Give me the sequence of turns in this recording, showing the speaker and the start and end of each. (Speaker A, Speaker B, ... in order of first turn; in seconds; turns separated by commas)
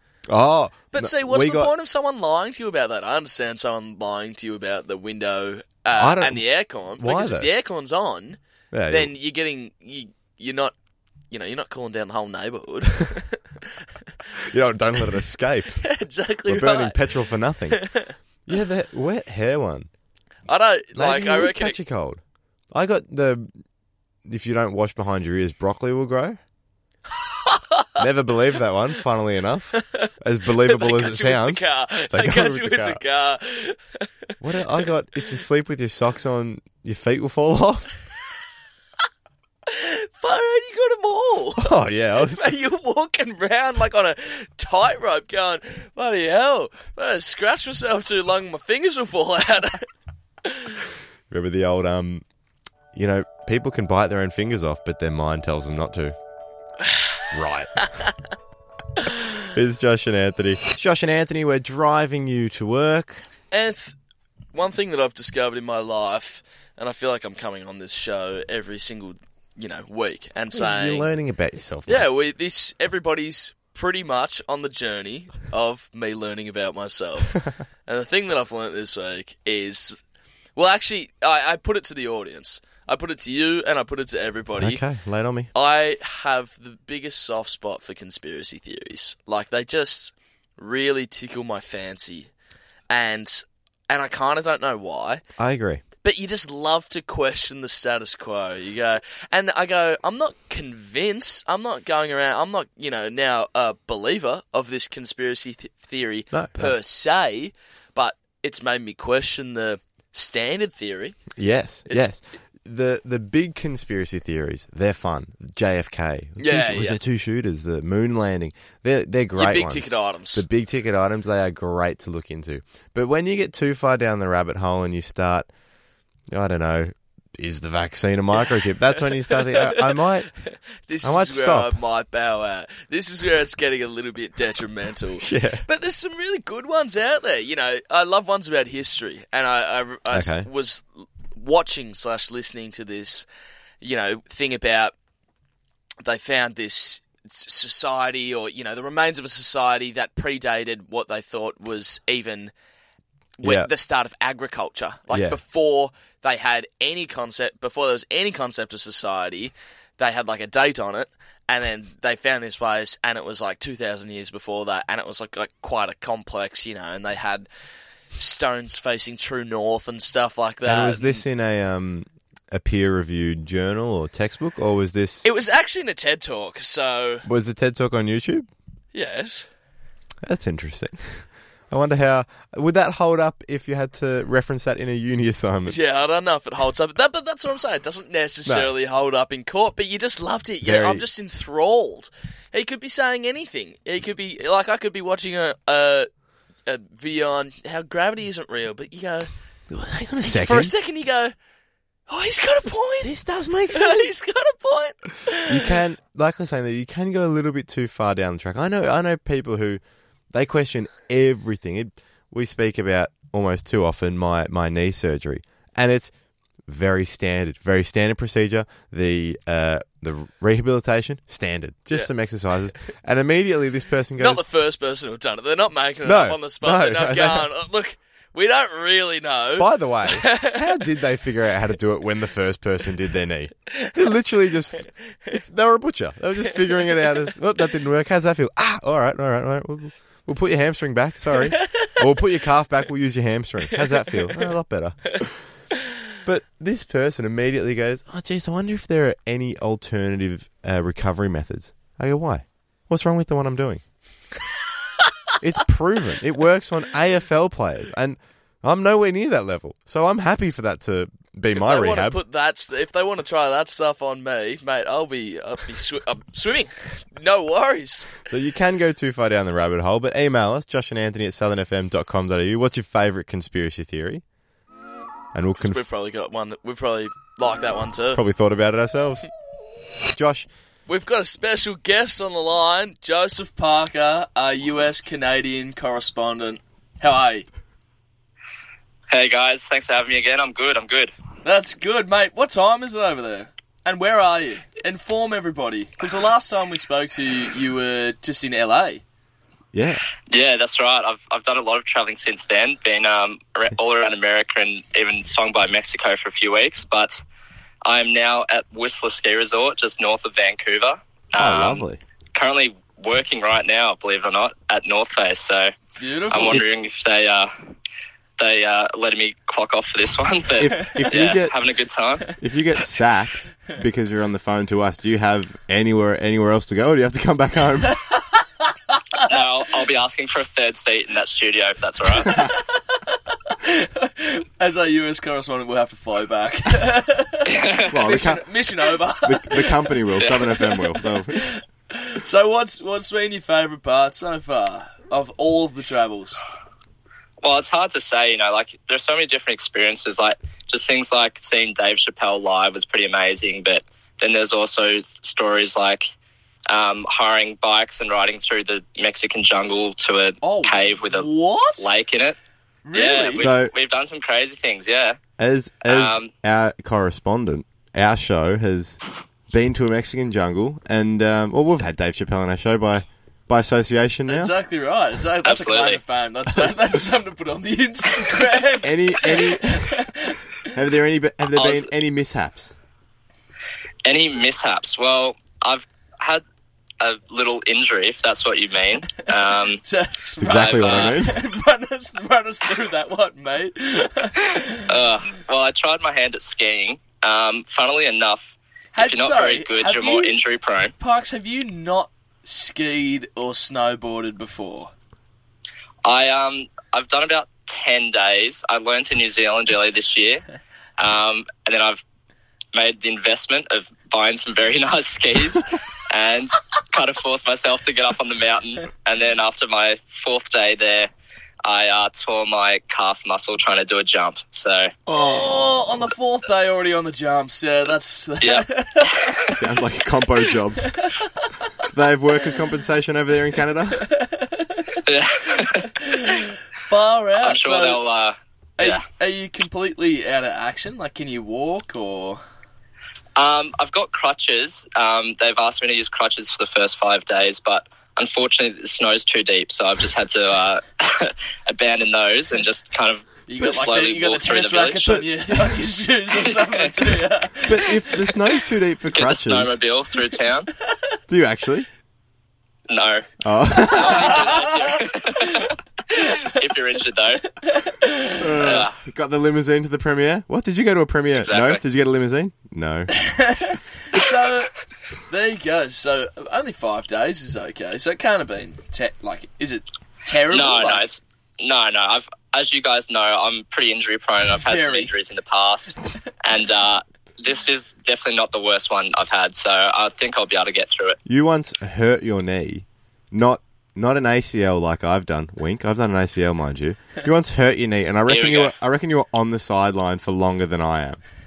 Speaker A: 0.3-1.7, Speaker B: 0.9-10.7, Speaker A: 6.0-6.4, Speaker A: 7.0-7.5, Speaker A: 8.7-9.1, Speaker B: 11.3-13.4, Speaker A: 14.4-15.8, Speaker B: 15.8-17.1, Speaker A: 16.5-17.9, Speaker B: 17.7-18.1, Speaker A: 18.4-19.9, Speaker B: 20.5-21.8, Speaker A: 20.9-22.2, Speaker A: 22.7-23.5, Speaker A: 24.2-26.4, Speaker B: 27.2-28.0, Speaker A: 28.0-33.0, Speaker B: 29.7-34.8, Speaker A: 34.4-37.9, Speaker B: 39.7-49.9, Speaker A: 41.6-42.4, Speaker B: 50.4-50.8, Speaker A: 51.3-52.2, Speaker A: 52.9-56.1, Speaker B: 56.8-57.2, Speaker A: 57.3-57.7, Speaker B: 57.8-58.1, Speaker A: 59.5-63.2, Speaker B: 63.5-64.0, Speaker B: 64.5-71.1, Speaker A: 70.5-72.1, Speaker B: 71.9-80.0, Speaker B: 80.5-84.8, Speaker A: 84.5-85.5, Speaker B: 85.5-92.3, Speaker B: 92.9-95.2, Speaker A: 95.4-95.8, Speaker B: 96.0-111.2, Speaker A: 106.3-106.7, Speaker A: 111.3-125.5, Speaker B: 116.4-117.0, Speaker B: 119.4-120.5, Speaker A: 126.3-130.3, Speaker B: 129.3-143.3, Speaker A: 131.0-131.7, Speaker A: 135.2-135.6, Speaker A: 140.1-140.5, Speaker B: 143.8-144.9, Speaker B: 146.0-152.5, Speaker B: 153.4-167.5, Speaker A: 153.4-153.7, Speaker A: 155.1-155.4, Speaker B: 168.1-171.2, Speaker A: 170.6-175.2, Speaker B: 175.2-177.2, Speaker A: 177.2-178.5, Speaker B: 178.9-179.5, Speaker A: 180.2-185.8, Speaker B: 185.7-196.1, Speaker A: 190.6-191.0, Speaker B: 196.7-199.3, Speaker A: 199.7-200.7, Speaker B: 200.2-201.3, Speaker B: 202.1-203.1, Speaker A: 203.0-204.1, Speaker B: 203.7-205.7, Speaker A: 205.4-209.8, Speaker A: 210.3-216.1, Speaker A: 216.7-224.4, Speaker B: 224.2-230.8, Speaker A: 226.0-227.5, Speaker A: 229.6-245.4, Speaker B: 241.6-241.9, Speaker B: 243.8-244.5, Speaker A: 246.2-253.8, Speaker A: 255.4-262.2, Speaker B: 261.5-268.2, Speaker A: 268.3-274.2, Speaker A: 275.3-275.8, Speaker B: 275.6-278.2, Speaker A: 278.1-279.3, Speaker A: 280.1-280.5, Speaker B: 280.9-287.4, Speaker C: 289.1-291.1, Speaker B: 291.4-299.0, Speaker A: 299.7-300.0, Speaker C: 300.3-307.2, Speaker C: 307.8-315.7, Speaker A: 311.4-312.0, Speaker B: 316.0-316.6, Speaker C: 316.3-317.5, Speaker A: 316.4-316.6, Speaker C: 318.4-322.3, Speaker A: 320.6-321.8, Speaker A: 322.4-328.0, Speaker B: 327.9-329.3, Speaker C: 329.2-332.3, Speaker A: 332.2-332.5, Speaker B: 332.2-346.4, Speaker C: 337.5-337.9, Speaker A: 337.9-338.5, Speaker A: 339.2-341.4, Speaker C: 347.4-356.1, Speaker C: 356.7-362.4, Speaker B: 360.4-361.9, Speaker B: 362.8-363.5, Speaker C: 362.9-365.2, Speaker A: 363.3-363.7, Speaker A: 365.4-369.0, Speaker C: 365.9-366.3, Speaker A: 369.5-374.5, Speaker B: 374.3-380.4, Speaker C: 375.4-376.0, Speaker A: 378.8-379.9, Speaker A: 380.7-382.7, Speaker C: 381.5-381.9, Speaker C: 384.0-386.4, Speaker C: 387.0-389.8, Speaker B: 389.2-394.9, Speaker A: 390.4-391.4, Speaker C: 390.4-391.2, Speaker C: 394.9-400.9, Speaker B: 398.9-400.4, Speaker B: 401.0-404.9, Speaker C: 406.0-410.4, Speaker C: 411.0-412.0, Speaker C: 412.7-421.1, Speaker C: 421.6-424.9, Speaker B: 425.1-429.5, Speaker C: 428.4-429.4, Speaker A: 429.5-430.9, Speaker A: 431.9-434.1, Speaker B: 434.0-435.0, Speaker C: 435.1-435.9, Speaker B: 435.6-438.0, Speaker C: 437.4-439.0, Speaker B: 438.8-442.4, Speaker C: 443.4-455.2, Speaker B: 453.5-458.3, Speaker A: 457.6-459.8, Speaker C: 459.1-460.7, Speaker A: 461.3-461.9, Speaker C: 462.9-463.3, Speaker A: 463.4-464.4, Speaker C: 463.9-467.4, Speaker B: 464.0-466.6, Speaker B: 467.4-468.7, Speaker A: 468.4-473.1, Speaker C: 468.6-468.9, Speaker C: 471.3-471.8, Speaker B: 473.1-474.7, Speaker B: 475.3-481.0, Speaker C: 480.5-491.2, Speaker B: 484.5-485.1, Speaker A: 491.2-501.2, Speaker C: 498.3-498.7